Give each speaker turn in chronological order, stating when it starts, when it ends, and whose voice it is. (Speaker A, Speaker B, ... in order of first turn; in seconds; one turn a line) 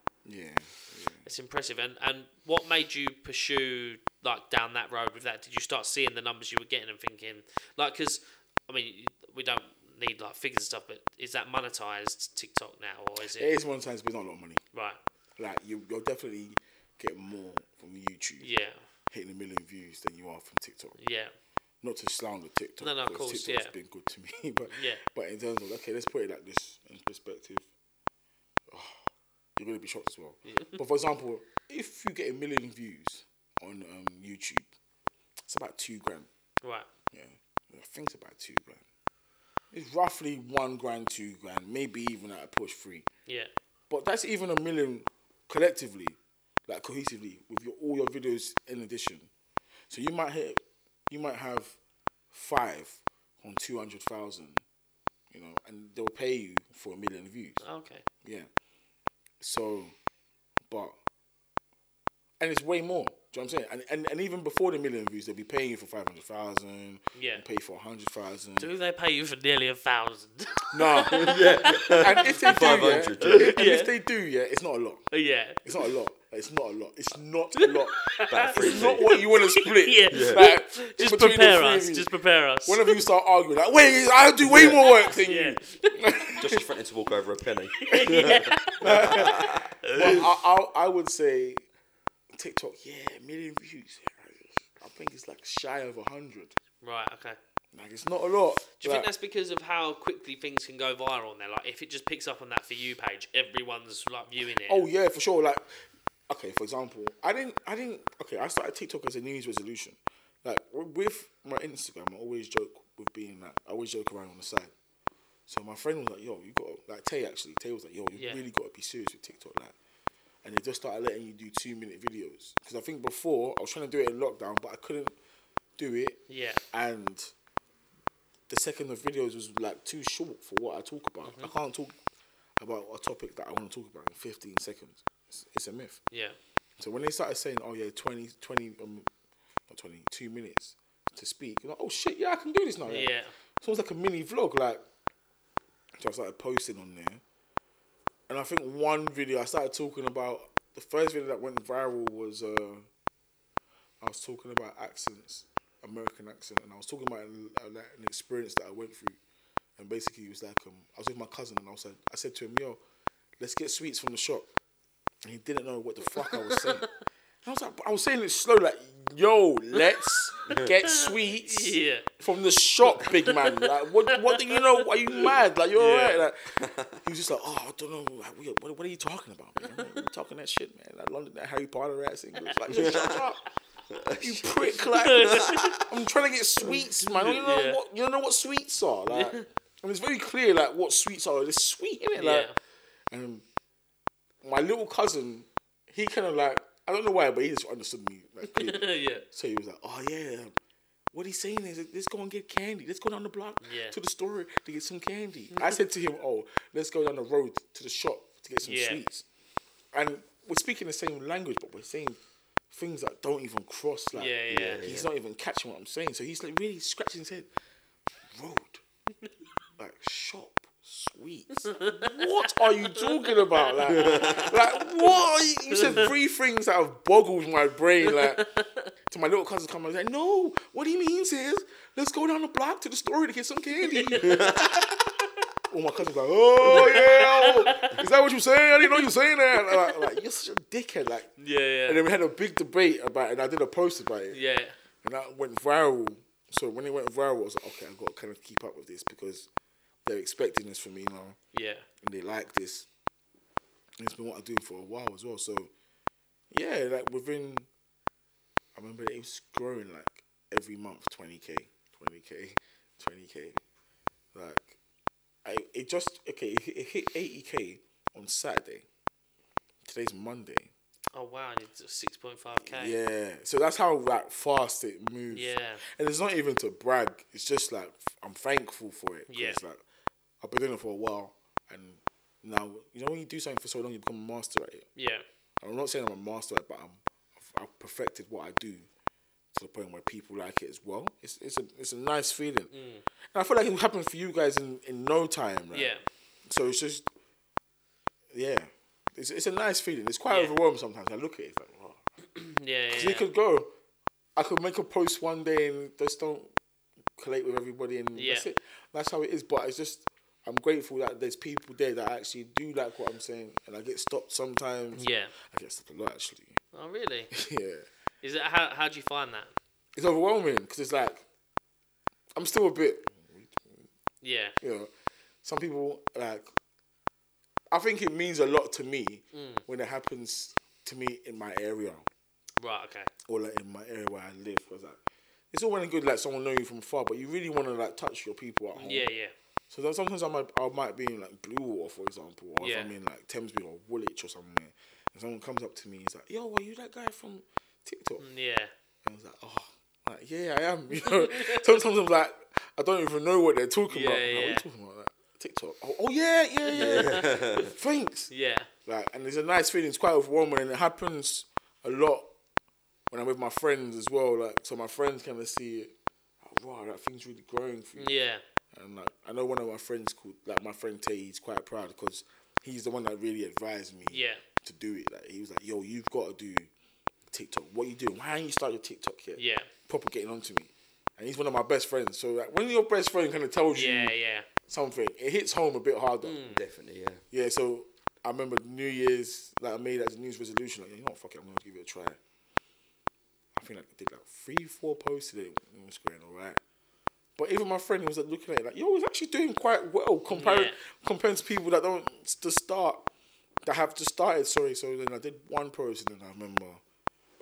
Speaker A: 0.2-1.3
Speaker B: 1.2-13.5
Speaker A: 13.2-14.6
Speaker B: 14.7-15.0
Speaker A: 15.4-18.5
Speaker B: 18.4-18.8
Speaker A: 19.1-21.0
Speaker B: 21.0-21.3
Speaker A: 21.8-27.7
Speaker B: 22.8-23.7
Speaker B: 24.7-25.0
Speaker A: 28.7-34.7
Speaker B: 30.4-30.8
Speaker A: 35.5-36.3
Speaker B: 36.6-36.9
Speaker A: 37.1-38.8
Speaker A: 39.7-43.1
Speaker A: 43.9-49.3
Speaker A: 49.9-51.8
Speaker A: 52.3-54.6
Speaker A: 55.3-57.6
Speaker B: 57.6-58.0
Speaker A: 58.2-58.5
Speaker A: 59.4-59.9
Speaker A: 60.7-60.9
Speaker A: 62.4-68.7
Speaker B: 67.1-67.4
Speaker B: 68.6-73.9
Speaker A: 70.7-75.0
Speaker C: 71.1-73.6
Speaker B: 75.1-75.8
Speaker A: 75.6-78.0
Speaker B: 77.6-82.8
Speaker C: 78.2-79.2
Speaker A: 78.5-82.1
Speaker C: 80.1-80.5
Speaker A: 82.6-86.6
Speaker C: 84.4-84.9
Speaker B: 84.8-86.0
Speaker C: 86.3-90.2
Speaker B: 87.8-90.3
Speaker A: 87.9-91.7
Speaker A: 92.3-96.5
Speaker B: 96.8-97.4
Speaker A: 97.7-99.1
Speaker B: 98.7-104.9
Speaker A: 104.6-114.7
Speaker A: 115.5-119.7
Speaker B: 118.1-118.4
Speaker A: 120.4-125.2
Speaker A: 125.8-127.3
Speaker B: 126.3-126.6
Speaker A: 128.5-131.9
Speaker B: 131.2-131.5
Speaker A: 132.6-136.0
Speaker B: 136.1-136.4
Speaker A: 136.8-139.1
Speaker A: 139.7-144.8
Speaker B: 142.8-143.3
Speaker A: 145.9-147.2
Speaker A: 148.3-152.9
Speaker A: 154.0-159.2
Speaker A: 159.8-162.8
Speaker A: 163.4-164.5
Speaker A: 165.2-166.9
Speaker B: 166.2-166.8
Speaker A: 167.4-183.4
Speaker B: 170.4-172.1
Speaker B: 172.8-176.2
Speaker C: 176.6-177.0
Speaker B: 179.7-180.0
Speaker C: 182.7-183.3
Speaker C: 183.9-185.8
Speaker A: 184.1-192.5
Speaker B: 184.9-185.8
Speaker B: 187.0-187.8
Speaker B: 189.1-189.4
Speaker B: 192.1-192.6
Speaker A: 193.1-193.4
Speaker A: 194.4-200.5
Speaker B: 198.4-199.2
Speaker A: 201.1-209.2
Speaker B: 203.6-203.9
Speaker B: 208.6-209.0
Speaker A: 209.9-212.2
Speaker A: 212.7-217.5
Speaker B: 214.1-214.8
Speaker C: 214.5-215.1
Speaker A: 218.3-218.8
Speaker A: 219.8-228.5
Speaker B: 221.7-224.9
Speaker C: 223.9-224.5
Speaker B: 225.7-226.1
Speaker B: 228.1-228.9
Speaker A: 229.1-234.6
Speaker B: 233.8-235.1
Speaker C: 234.2-234.9
Speaker A: 235.7-241.3
Speaker B: 236.6-238.0
Speaker B: 239.6-240.0
Speaker B: 241.4-242.0
Speaker A: 241.9-244.4
Speaker B: 244.3-244.8
Speaker A: 245.0-249.5
Speaker A: 250.0-251.4
Speaker B: 251.5-251.9
Speaker A: 252.0-252.9
Speaker A: 254.0-255.7
Speaker A: 256.5-257.7
Speaker A: 258.7-263.6
Speaker A: 264.3-264.8
Speaker A: 265.4-268.9
Speaker A: 269.8-270.7
Speaker B: 271.1-273.0
Speaker A: 272.6-279.8
Speaker B: 275.3-275.8
Speaker B: 279.3-279.6
Speaker A: 280.4-284.9
Speaker B: 284.9-285.2
Speaker A: 285.6-288.9
Speaker A: 289.5-292.7
Speaker B: 292.7-293.0
Speaker A: 293.3-295.9
Speaker B: 295.7-296.0
Speaker A: 296.4-297.1
Speaker A: 298.3-302.0
Speaker B: 300.3-300.5
Speaker B: 302.3-303.3
Speaker A: 302.9-303.7
Speaker A: 304.4-306.5
Speaker A: 307.2-316.6
Speaker B: 308.1-308.5
Speaker B: 314.9-315.3
Speaker B: 316.7-317.3
Speaker A: 317.3-317.9
Speaker B: 318.2-319.5
Speaker A: 319.9-321.2
Speaker A: 322.4-323.8
Speaker B: 324.2-324.6
Speaker A: 324.6-324.9
Speaker A: 325.4-326.5
Speaker A: 327.7-332.1
Speaker B: 329.3-329.6
Speaker B: 332.6-333.1
Speaker A: 333.3-335.0
Speaker A: 335.5-339.1
Speaker B: 338.7-339.3
Speaker A: 339.7-348.2
Speaker B: 342.6-342.9
Speaker B: 348.2-348.7
Speaker A: 349.0-358.3
Speaker B: 351.0-351.7
Speaker B: 353.9-354.6
Speaker B: 356.6-357.4
Speaker C: 356.7-357.7
Speaker B: 358.3-358.7
Speaker A: 358.9-362.3
Speaker A: 363.1-368.1
Speaker B: 368.0-368.4
Speaker A: 368.7-376.7
Speaker B: 374.1-374.4
Speaker A: 377.3-384.1
Speaker B: 379.4-379.7
Speaker B: 383.7-384.5
Speaker A: 384.7-386.4
Speaker B: 386.2-386.6
Speaker C: 386.4-387.2
Speaker A: 387.3-392.2
Speaker A: 393.5-396.6
Speaker A: 397.4-403.1
Speaker B: 400.3-400.8
Speaker A: 403.6-406.8